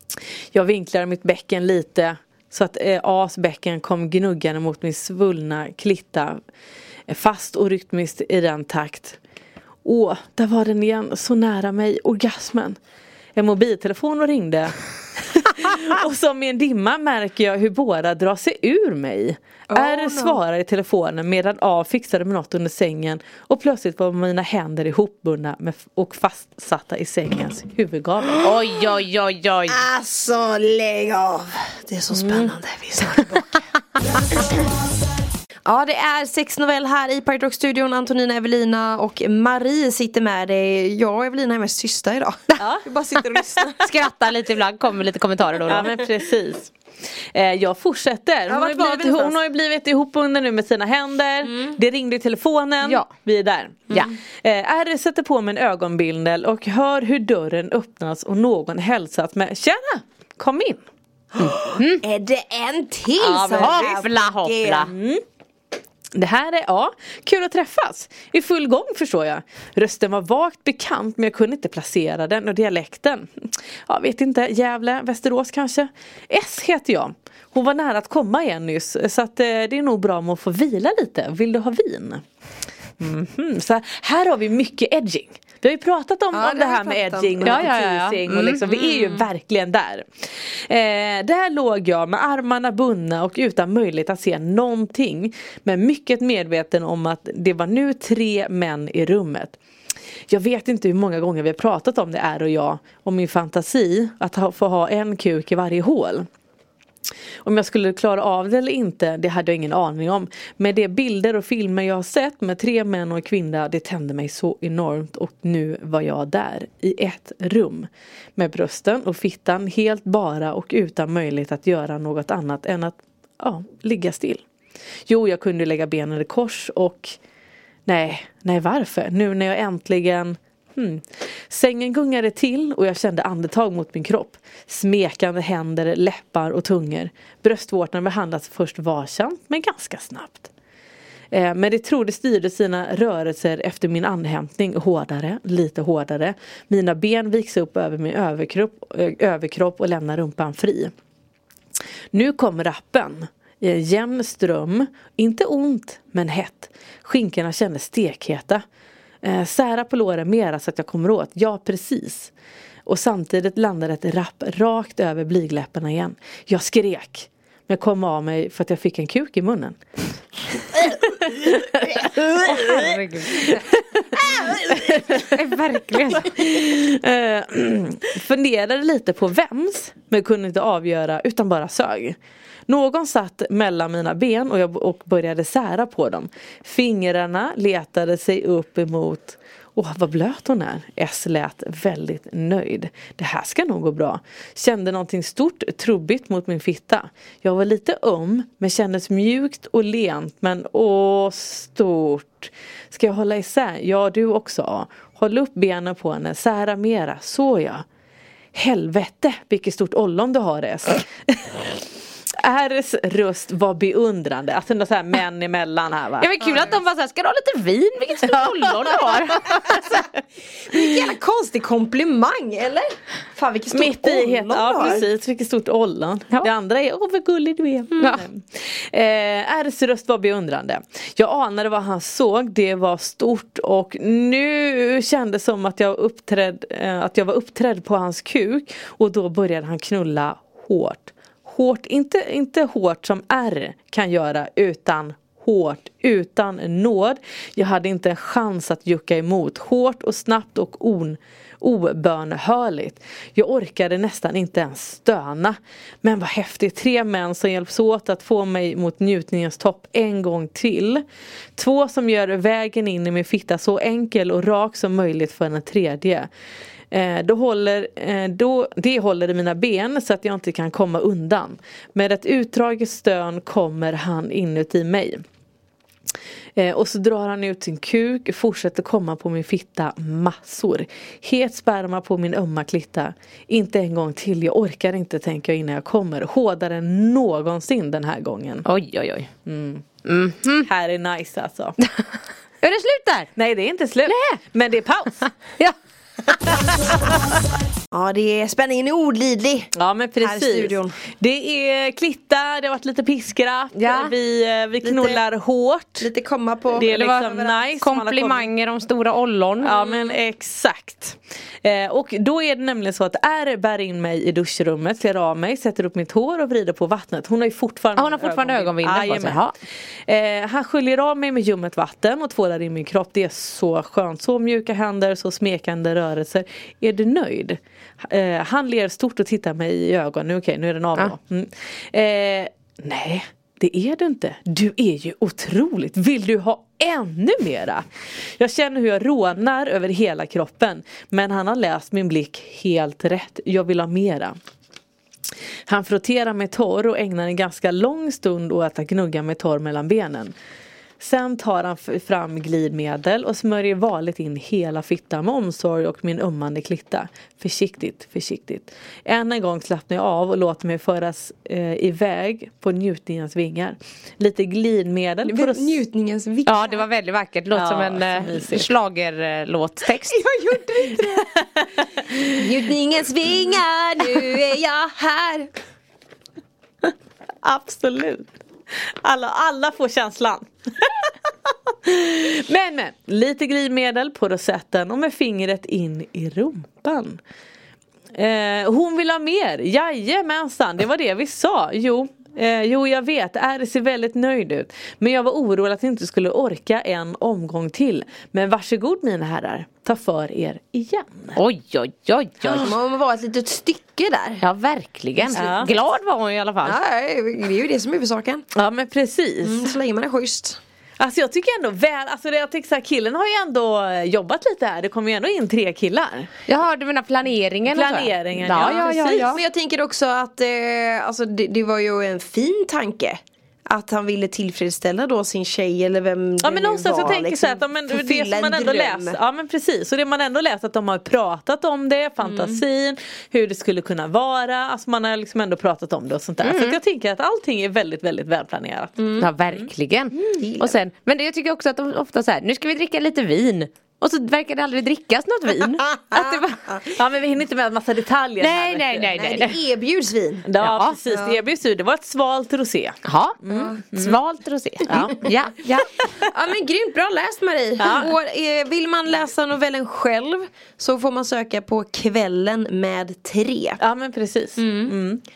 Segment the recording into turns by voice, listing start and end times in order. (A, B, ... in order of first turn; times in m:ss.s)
0:00.5-0:06.4 A
0:07.1-0:09.2 A
0:09.8-0:12.8 A
0:13.4-0:28.5 A
0:19.7-0:20.4 B
0:28.4-0:29.8 C
0:29.7-0:33.6 B
0:32.1-0:32.5 A
0:35.6-0:43.8 B
0:42.6-0:42.8 A
0:43.8-0:45.9 C
0:45.7-0:46.7 A
0:47.3-1:00.8 A
0:48.5-0:49.4 B
1:01.4-1:04.9 B
1:01.4-1:02.0 C
1:03.2-1:04.1 A
1:03.5-1:04.9 C
1:04.8-1:05.2 A
1:06.2-1:22.2 A
1:23.0-1:39.6 A
1:26.3-1:27.7 B
1:27.4-1:28.8 C
1:40.3-1:46.3 A
1:47.4-2:04.4 A
2:05.1-2:07.2 A
2:07.8-2:20.5 A
2:21.3-2:30.9 A
2:32.1-2:38.6 A
2:39.2-2:42.3 A
2:42.8-2:49.8 A
2:50.6-3:02.2 A
2:52.3-2:53.6 C
2:54.5-2:56.4 C
3:02.7-3:27.8 A
3:28.5-3:31.7 A
3:32.4-3:36.8 A
3:36.2-3:40.0 C
3:38.3-3:39.2 A
3:40.7-3:45.0 B
3:43.7-4:21.0 A
3:48.0-3:48.2 C
4:21.6-4:26.3 A
4:26.9-4:35.2 A
4:36.6-4:48.7 A
4:48.6-4:49.3 C
4:49.4-4:50.0 A
4:50.0-4:50.7 C
4:50.6-4:51.8 A
4:52.6-4:53.3 C
4:53.3-4:55.3 A
4:54.1-4:54.4 C
4:57.9-5:01.0 B
4:59.7-5:06.1 A
5:03.8-5:04.1 C
5:04.8-5:05.2 B
5:06.0-5:07.6 B
5:06.7-5:08.5 A
5:06.9-5:10.0 C
5:09.6-5:19.5 A
5:18.0-5:19.5 C
5:20.1-5:37.8 A
5:38.4-5:44.3 A
5:45.7-5:50.3 A
5:51.0-6:05.8 A
6:05.2-6:06.8 B
6:06.4-6:10.2 C
6:07.5-6:08.7 A
6:10.0-6:11.6 B
6:12.3-6:15.5 B
6:17.4-6:18.3 A
6:18.9-6:21.1 A
6:21.7-6:27.2 A
6:28.1-6:41.4 A
6:41.4-6:42.7 C
6:42.5-6:44.4 B
6:44.4-6:46.8 C
6:45.3-6:45.8 A
6:46.6-6:48.4 B
6:48.5-6:49.7 A
6:49.4-6:50.6 B
6:51.0-6:56.3 A
6:56.5-6:59.4 C
6:57.7-6:59.4 A
6:58.6-7:09.2 B
7:06.4-7:20.4 A
7:12.2-7:12.6 B
7:16.4-7:16.8 C
7:19.0-7:19.3 B
7:19.2-7:26.6 C
7:20.4-7:20.8 B
7:26.1-7:26.9 B
7:26.8-7:29.2 A
7:28.4-7:29.6 C
7:29.1-7:30.5 B
7:30.4-7:34.2 A
7:30.6-7:31.0 C
7:31.1-7:31.4 B
7:33.0-7:35.9 C
7:34.8-7:35.3 A
7:36.2-7:43.8 B
7:37.8-7:38.1 A
7:43.8-7:45.2 A
7:44.6-7:45.0 B